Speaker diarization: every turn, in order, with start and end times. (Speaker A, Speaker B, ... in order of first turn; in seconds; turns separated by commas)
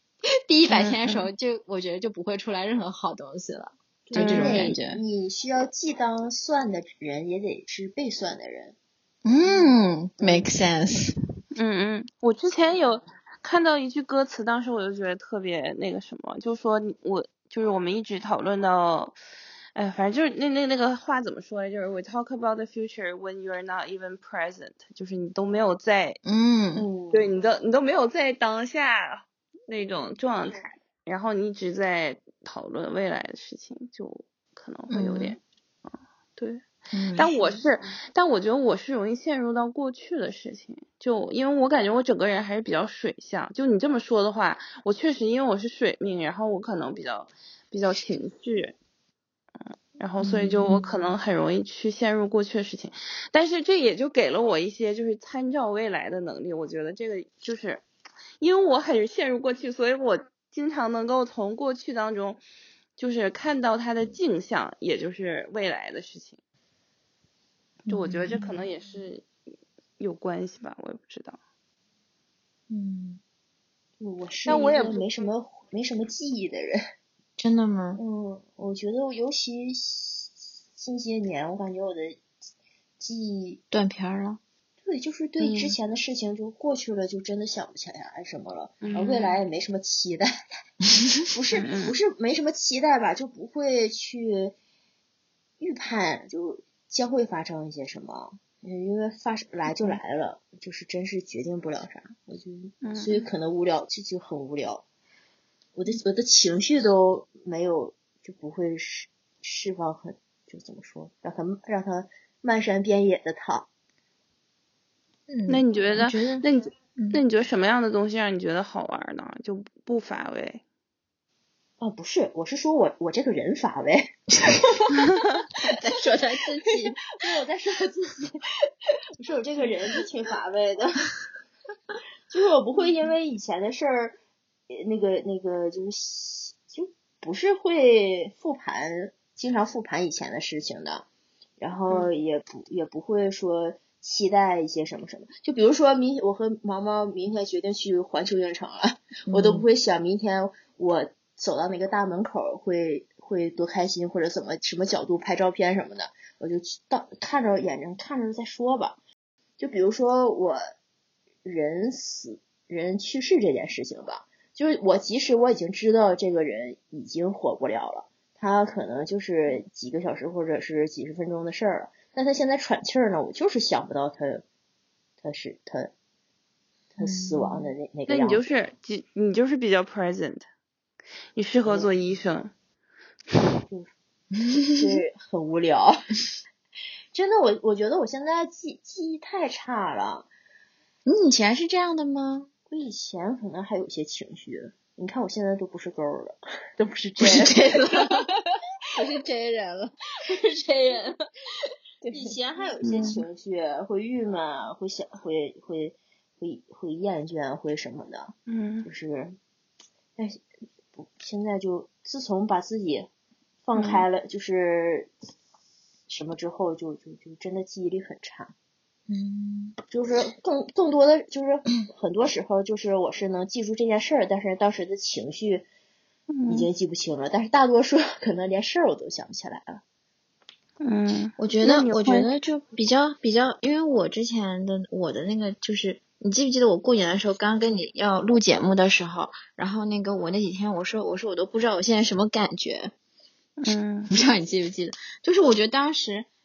Speaker A: 0.5-5.0, Speaker B: 0.7-1.3, Speaker C: 4.1-8.8, Speaker B: 4.1-4.7, Speaker A: 9.2-11.1, Speaker B: 11.6-19.1, Speaker B: 19.8-26.2, Speaker A: 26.2-26.9, Speaker C: 26.8-27.3, Speaker B: 27.1-35.4, Speaker A: 34.9-35.4, Speaker B: 36.4-36.6, Speaker A: 36.9-37.3, Speaker B: 37.1-48.7, Speaker C: 37.4-37.6, Speaker B: 50.0-57.8, Speaker A: 50.2-50.9, Speaker B: 58.4-62.4, Speaker B: 63.0-66.4, Speaker B: 67.9-69.3, Speaker A: 67.9-68.6, Speaker B: 70.0-71.4, Speaker A: 72.7-73.2, Speaker C: 74.0-76.8, Speaker B: 74.5-75.0, Speaker A: 77.4-78.0, Speaker C: 78.0-82.2, Speaker C: 83.0-83.6, Speaker A: 83.7-84.4, Speaker C: 84.8-90.3, Speaker B: 85.4-85.7, Speaker B: 88.8-89.4, Speaker C: 91.3-94.5, Speaker B: 91.5-91.9, Speaker C: 95.6-104.8, Speaker B: 102.8-103.3, Speaker C: 105.8-113.7, Speaker A: 115.3-116.4, Speaker B: 115.5-120.6, Speaker C: 121.8-124.6, Speaker A: 124.7-127.0, Speaker B: 125.0-125.4, Speaker C: 127.2-128.4, Speaker C: 129.2-131.1, Speaker C: 132.3-134.2, Speaker C: 134.7-141.1, Speaker C: 141.6-159.0, Speaker A: 149.3-149.7, Speaker C: 159.6-160.6, Speaker C: 161.4-174.4, Speaker C: 175.2-175.9, Speaker C: 176.9-178.4, Speaker A: 177.0-177.7, Speaker B: 178.1-180.5, Speaker B: 181.3-182.5, Speaker C: 181.6-181.9, Speaker A: 184.5-185.0, Speaker C: 184.7-186.1, Speaker C: 187.1-190.3, Speaker A: 191.1-192.5, Speaker C: 192.7-198.2, Speaker A: 197.2-198.3, Speaker A: 199.0-199.9, Speaker C: 200.3-201.1, Speaker A: 202.0-202.3, Speaker C: 202.1-209.4, Speaker B: 202.9-203.1, Speaker B: 208.5-208.9, Speaker C: 210.2-210.4, Speaker C: 210.9-213.1, Speaker C: 213.6-215.1, Speaker B: 213.7-214.0, Speaker C: 216.1-218.5, Speaker A: 219.1-219.8, Speaker C: 219.9-225.7, Speaker B: 226.3-226.7, Speaker C: 226.5-229.8, Speaker B: 230.8-232.3, Speaker A: 231.4-242.9, Speaker B: 243.6-244.1, Speaker A: 243.7-246.3